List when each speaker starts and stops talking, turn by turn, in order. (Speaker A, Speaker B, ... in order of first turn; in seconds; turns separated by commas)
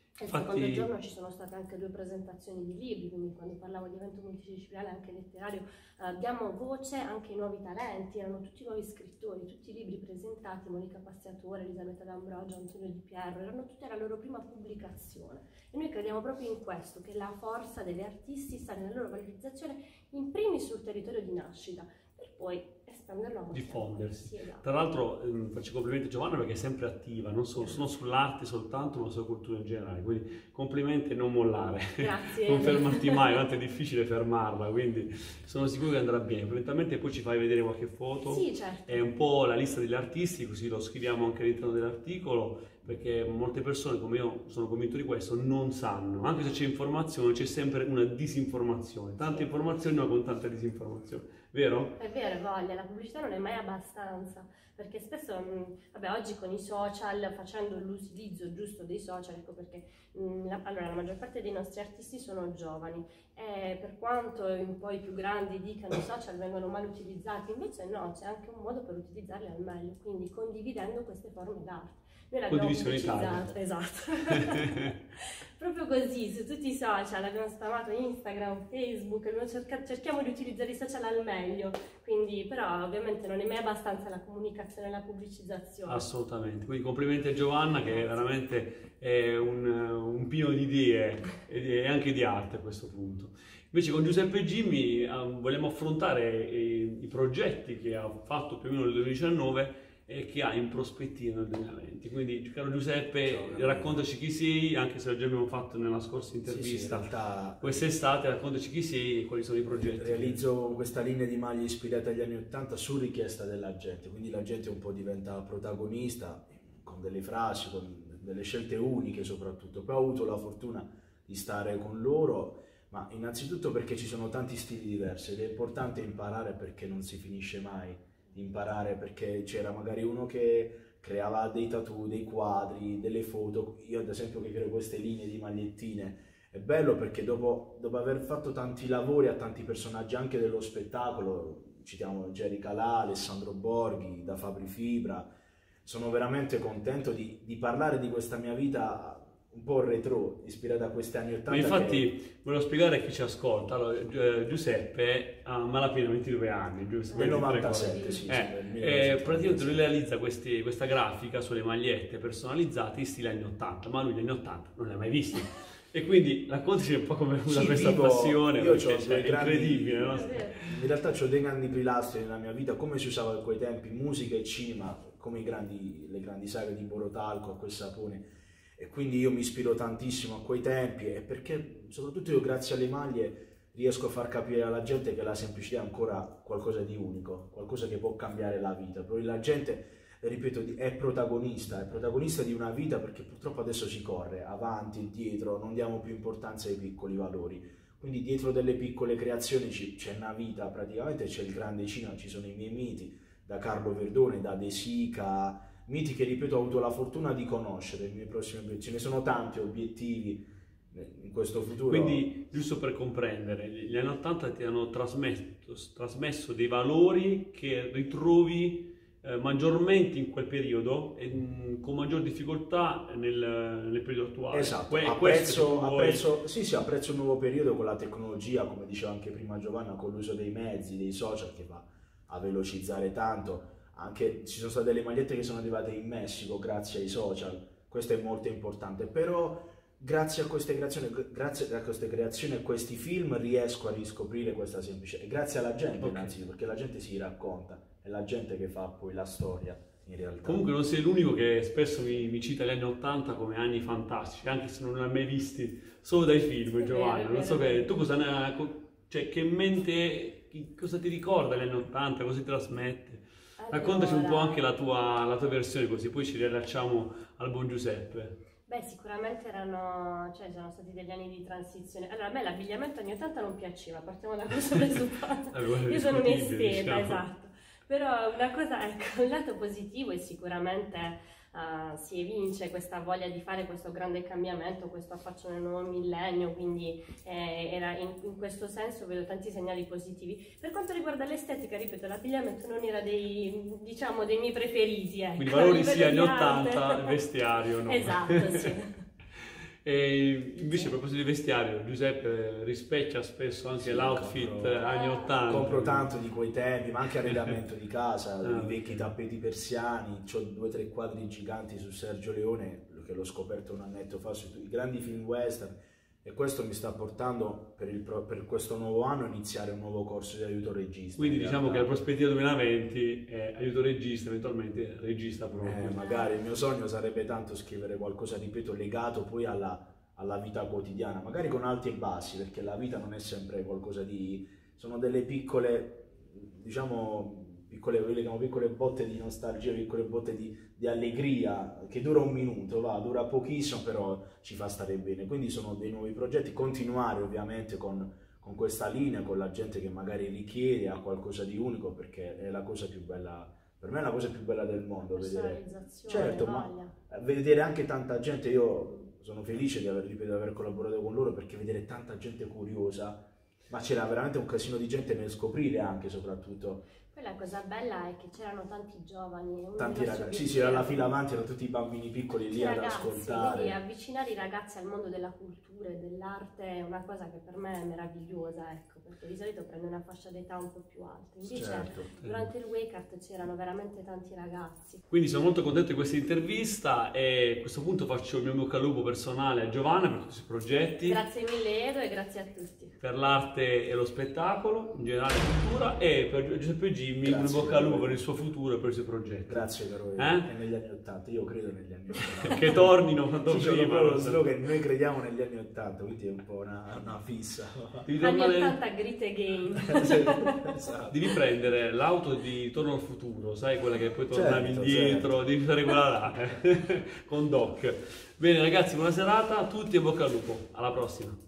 Speaker A: 0.2-24.6, Speaker B: 0.3-0.9, Speaker B: 23.5-52.0, Speaker A: 32.0-33.3, Speaker A: 38.2-39.1, Speaker A: 52.0-86.1, Speaker B: 72.5-73.5, Speaker B: 74.5-74.9, Speaker B: 85.8-110.4, Speaker A: 87.8-88.3, Speaker C: 103.2-104.0, Speaker C: 106.5-107.9, Speaker C: 109.7-145.3, Speaker C: 145.8-152.1, Speaker B: 151.5-170.7, Speaker A: 157.1-158.4, Speaker C: 157.1-159.8, Speaker C: 167.4-212.2, Speaker A: 170.1-170.6, Speaker B: 211.9-226.2, Speaker C: 224.5-250.7, Speaker B: 246.0-246.3, Speaker B: 250.4-268.3, Speaker A: 256.6-257.9, Speaker A: 263.6-264.6, Speaker A: 268.7-297.2, Speaker B: 275.5-277.2, Speaker B: 295.4-298.7, Speaker A: 297.8-299.0, Speaker B: 299.8-306.1, Speaker C: 303.8-304.8, Speaker A: 304.8-305.4, Speaker C: 305.4-321.9, Speaker B: 308.4-309.1, Speaker B: 321.2-326.0, Speaker C: 325.6-366.8, Speaker A: 325.9-326.4, Speaker A: 355.1-356.9, Speaker A: 367.1-371.1, Speaker C: 369.8-373.8, Speaker A: 372.5-385.0, Speaker C: 381.4-382.1, Speaker B: 382.2-382.5, Speaker B: 385.1-391.2, Speaker A: 391.0-393.0, Speaker B: 393.0-400.5, Speaker C: 397.2-398.2, Speaker C: 399.5-408.1, Speaker B: 402.5-404.4, Speaker B: 408.0-408.8, Speaker A: 408.2-410.6, Speaker C: 409.8-411.2, Speaker B: 411.1-421.4, Speaker C: 414.3-415.3